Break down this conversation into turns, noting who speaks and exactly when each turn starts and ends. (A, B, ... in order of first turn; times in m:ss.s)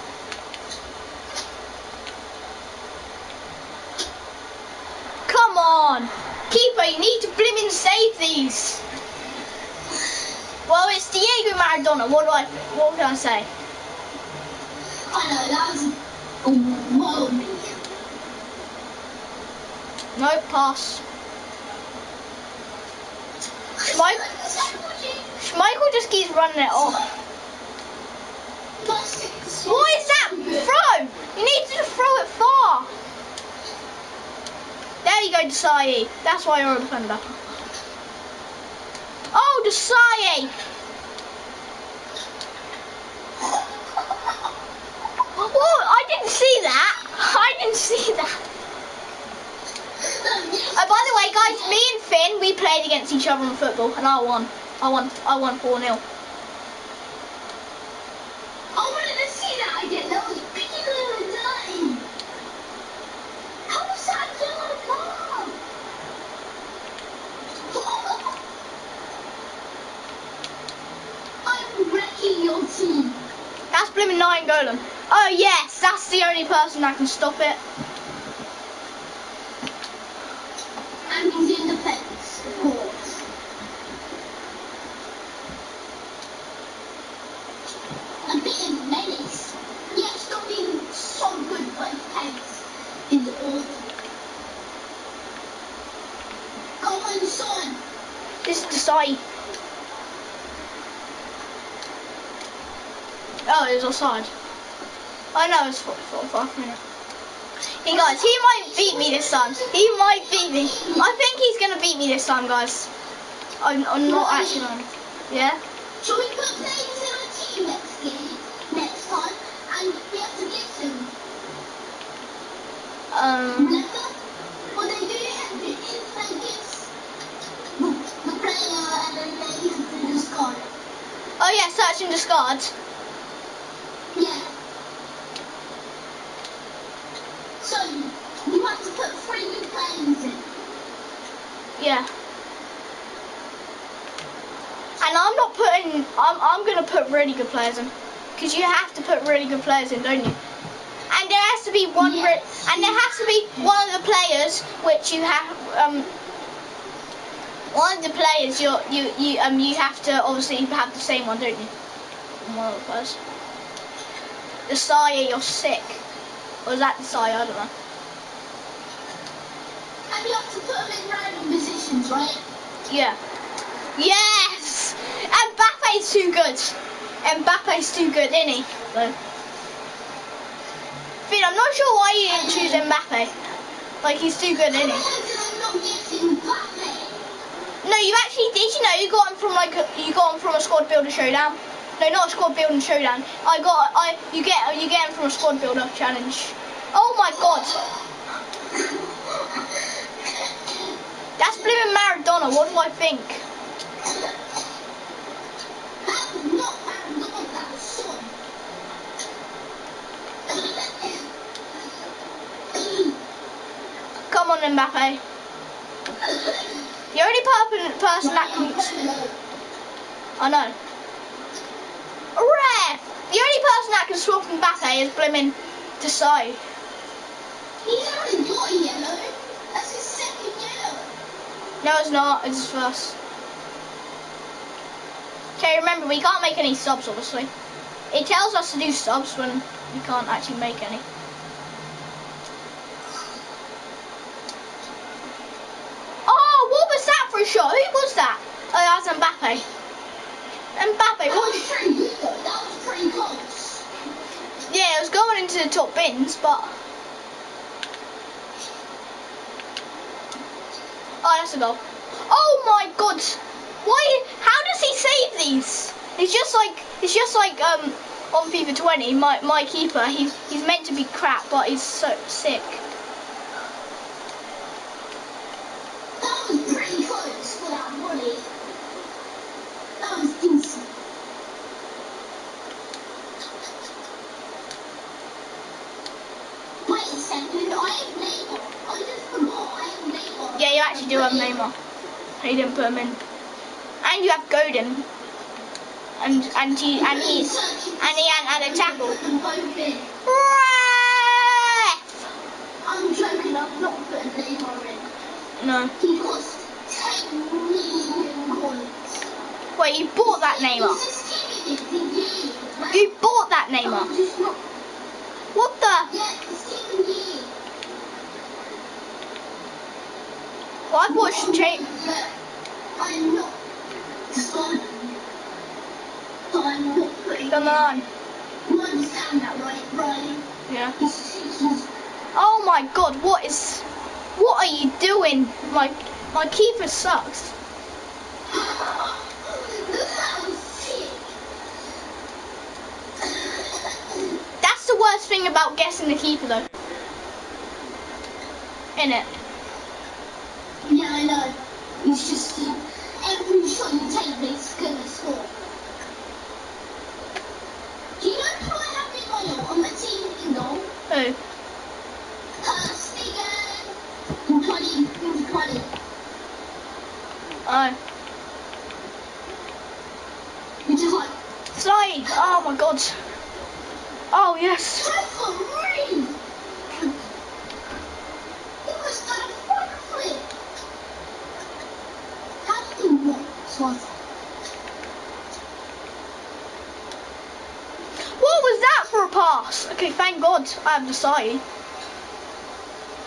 0:05.3-0:08.8 A
0:10.7-0:13.5 A
0:15.1-0:17.8 B
0:20.2-0:21.0 A
0:23.8-0:25.3 B
0:23.8-0:24.2 A
0:25.4-0:27.0 A
0:26.8-0:27.0 B
0:28.8-0:30.7 B
0:29.7-0:32.9 A
0:35.0-0:37.4 A
0:39.3-0:40.5 A
0:45.4-0:48.4 A
0:50.0-0:51.8 B
0:50.8-0:56.0 A
0:58.7-1:02.1 B
1:03.7-1:05.6 B
1:07.7-1:08.4 B
1:11.4-1:13.3 B
1:13.7-1:17.6 A
1:21.1-1:23.2 B
1:28.3-1:33.9 B
1:36.8-1:37.8 B
1:38.4-1:39.2 A
1:43.5-1:44.3 A
1:45.4-1:46.8 A
1:47.8-1:52.9 A
1:47.9-1:51.2 B
1:53.6-1:55.6 A
1:54.1-1:54.7 B
1:56.0-2:01.1 B
2:03.1-2:03.8 A
2:03.5-2:04.2 B
2:04.7-2:06.9 B
2:07.8-2:10.7 B
2:11.4-2:12.7 A
2:14.1-2:14.5 B
2:17.6-2:20.5 B
2:21.8-2:22.1 A
2:25.0-2:30.4 A
2:31.1-2:36.1 A
2:32.0-2:33.2 B
2:37.7-2:41.7 A
2:42.4-2:43.2 A
2:44.7-2:46.0 A
2:46.6-2:47.7 A
2:50.1-2:52.4 B
2:52.9-2:53.2 A
2:54.0-2:59.2 A
3:01.3-3:03.3 A
3:02.3-3:02.9 B
3:04.0-3:05.1 A
3:04.7-3:07.2 B
3:07.8-3:17.8 A
3:17.3-3:18.0 B
3:18.7-3:21.0 B
3:21.4-3:23.4 A
3:24.0-3:24.4 B
3:26.0-3:28.3 B
3:30.5-3:31.3 B
3:32.7-3:33.2 B
3:34.3-3:35.2 A
3:36.2-3:36.8 B
3:37.1-3:38.9 A
3:38.2-3:39.4 B
3:40.4-3:40.8 A
3:42.4-3:46.6 A
3:47.8-3:51.1 B
3:51.8-3:53.2 A
3:55.6-3:57.5 A
3:58.1-4:01.0 A
4:06.3-4:09.6 A
4:10.8-4:11.6 A
4:11.3-4:13.8 B
4:14.7-4:16.7 A
4:21.2-4:32.8 A
4:36.2-4:38.5 B
4:40.0-4:40.9 B
4:46.8-4:51.6 B
4:50.6-4:51.7 A
4:52.4-4:53.2 A
4:54.0-4:55.1 A
4:56.2-4:59.2 A
4:57.0-5:00.1 B
5:00.2-5:02.0 A
5:02.8-5:05.1 B
5:05.6-5:05.9 A
5:06.0-5:09.2 B
5:09.8-5:11.0 A
5:10.2-5:13.1 B
5:12.9-5:14.1 A
5:13.8-5:14.6 B
5:15.6-5:16.1 A
5:16.1-5:17.5 B
5:20.9-5:21.8 A
5:21.1-5:22.3 B
5:23.0-5:23.6 B
5:24.3-5:25.2 B
5:26.5-5:28.0 B
5:27.5-5:28.0 A
5:28.6-5:30.5 B
5:30.7-5:31.0 A
5:31.0-5:31.9 B
5:32.4-5:33.8 A
5:34.4-5:37.5 A
5:38.5-5:41.3 B
5:43.2-5:44.3 B
5:44.6-5:46.7 A
5:49.0-5:49.3 A
5:50.8-5:55.5 B
5:58.2-6:00.9 B
6:01.1-6:01.4 A
6:02.6-6:03.9 B
6:04.5-6:05.9 B
6:07.7-6:08.0 A
6:10.8-6:11.3 B
6:11.8-6:13.1 A
6:12.3-6:12.6 B
6:14.3-6:15.1 A
6:15.0-6:16.3 B
6:18.8-6:20.5 B
6:22.6-6:24.2 B
6:28.4-6:31.6 A